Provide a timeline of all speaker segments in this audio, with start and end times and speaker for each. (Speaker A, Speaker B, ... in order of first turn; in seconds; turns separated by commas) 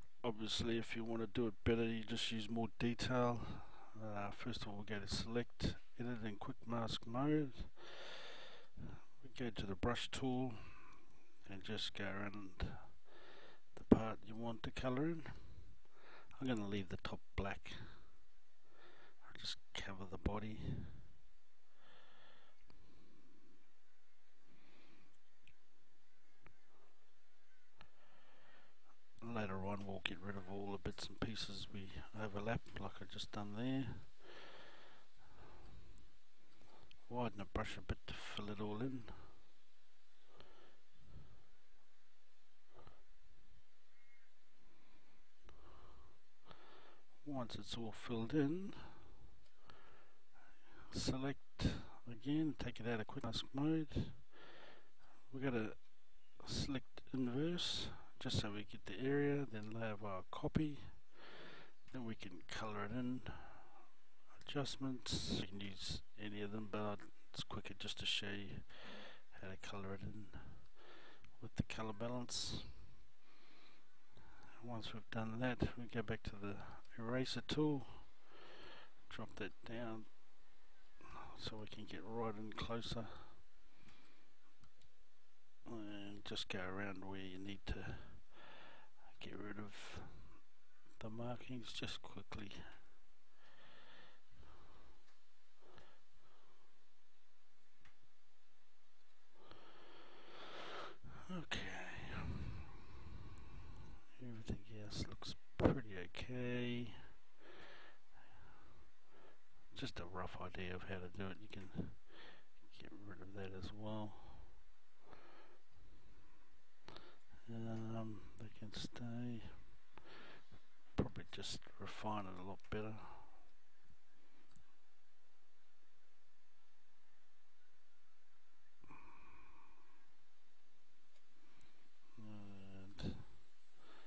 Speaker A: 0.2-8.4, Speaker A: 9.2-18.2, Speaker A: 19.2-21.1, Speaker A: 29.2-34.6, Speaker A: 37.0-39.3, Speaker A: 47.2-49.1, Speaker A: 50.9-54.6, Speaker A: 55.3-63.8, Speaker A: 64.4-72.9, Speaker A: 74.6-78.5, Speaker A: 79.0-80.5, Speaker A: 81.3-83.4, Speaker A: 85.7-90.5, Speaker A: 91.0-92.8, Speaker A: 101.3-102.5, Speaker A: 104.2-107.1, Speaker A: 109.7-114.6, Speaker A: 117.4-119.9, Speaker A: 120.9-123.4, Speaker A: 132.2-133.4